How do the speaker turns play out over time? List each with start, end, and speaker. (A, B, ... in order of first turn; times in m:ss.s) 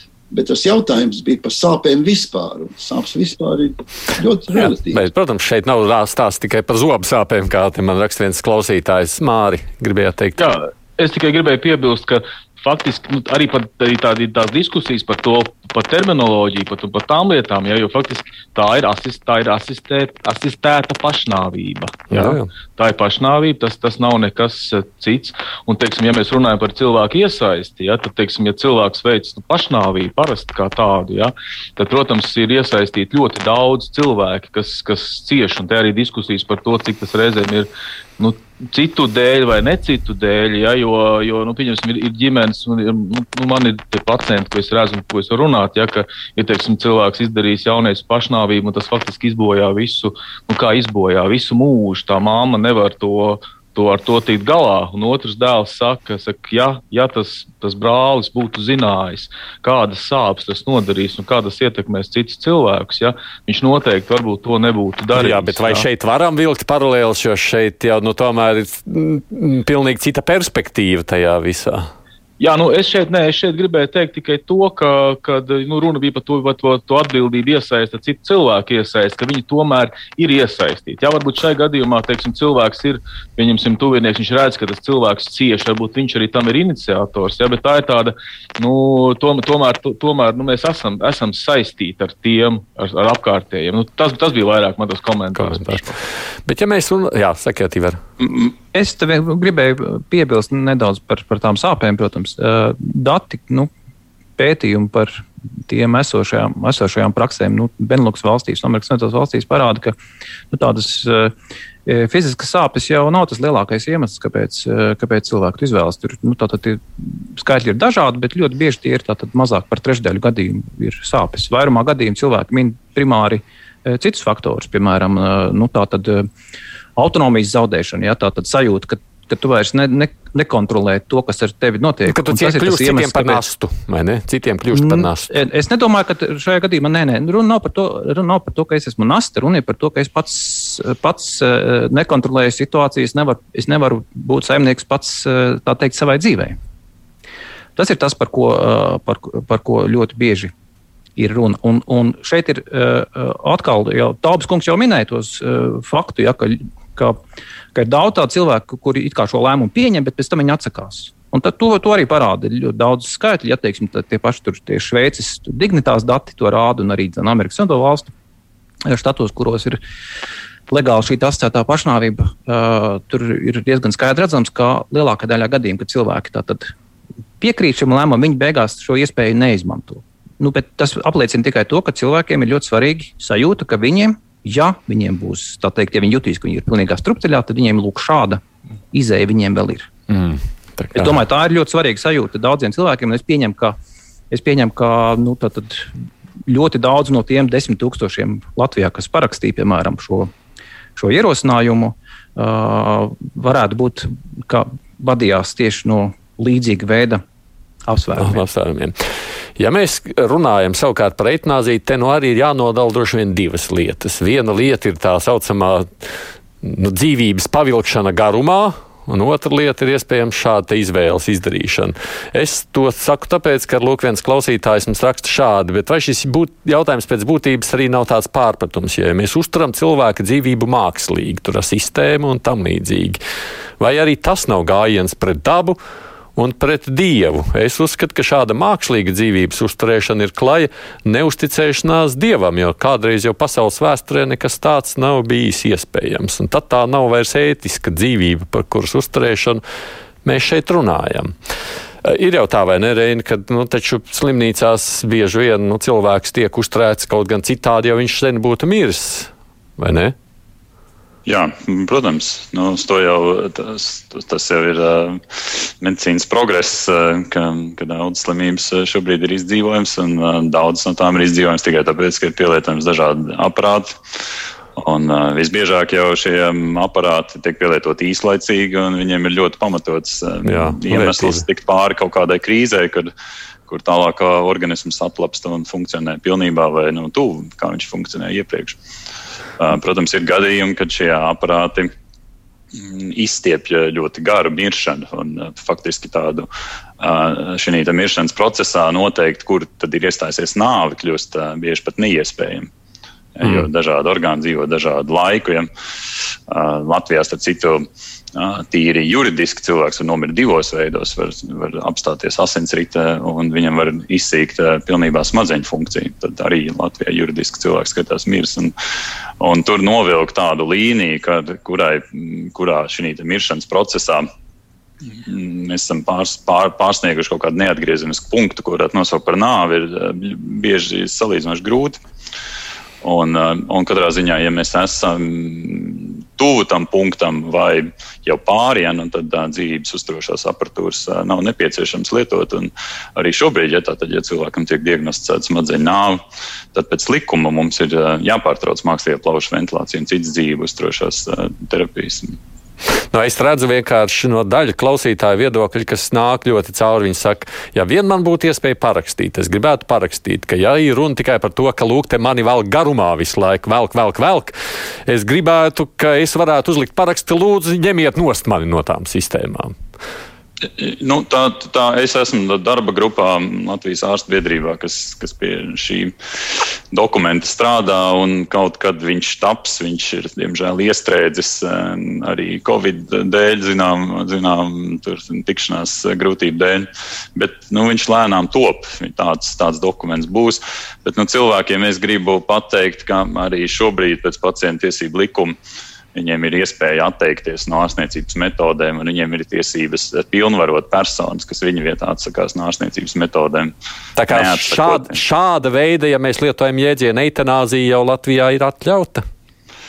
0:00.3-0:05.1 A
0:04.6-0:10.4 B
0:10.4-1:05.8 C
0:22.1-0:22.5 B
1:05.1-1:11.9 B
1:12.4-1:36.0 C
1:35.4-1:35.8 B
1:36.4-1:38.0 B
1:38.7-1:43.7 D
1:44.4-1:50.0 D
1:50.5-1:51.3 D
1:51.9-1:56.8 D
1:57.4-2:06.3 D
2:07.0-2:13.5 D
2:12.1-2:15.4 B
2:14.7-2:26.6 D
2:27.8-2:30.5 D
2:31.2-2:37.2 D
2:37.8-2:48.1 D
2:48.9-2:49.8 D
2:50.7-2:56.7 D
2:57.4-3:09.9 D
3:10.1-3:11.1 B
3:10.9-3:13.8 D
3:14.3-3:15.9 D
3:16.5-3:20.3 D
3:21.0-3:27.2 D
3:27.9-3:28.4 D
3:28.2-3:29.0 B
3:29.6-3:36.1 B
3:36.6-3:53.2 B
3:53.8-3:55.8 B
3:56.4-4:09.6 B
4:10.2-4:11.3 B
4:12.0-4:20.2 B
4:21.3-4:34.0 E
4:34.8-4:43.1 E
4:40.4-4:41.4 B
4:43.7-4:48.8 E
4:49.6-4:51.9 E
4:52.7-4:56.5 E
4:57.0-5:02.7 E
5:03.4-5:05.7 E
5:06.5-5:18.7 E
5:19.4-5:24.3 E
5:25.1-5:32.0 E
5:33.0-5:46.2 E
5:46.7-5:52.4 E
5:53.1-6:04.5 B
6:05.1-6:09.8 B
6:10.6-6:16.1 E
6:16.9-6:35.6 E
6:36.1-6:43.7 E
6:44.2-6:49.2 B
6:44.3-6:45.2 E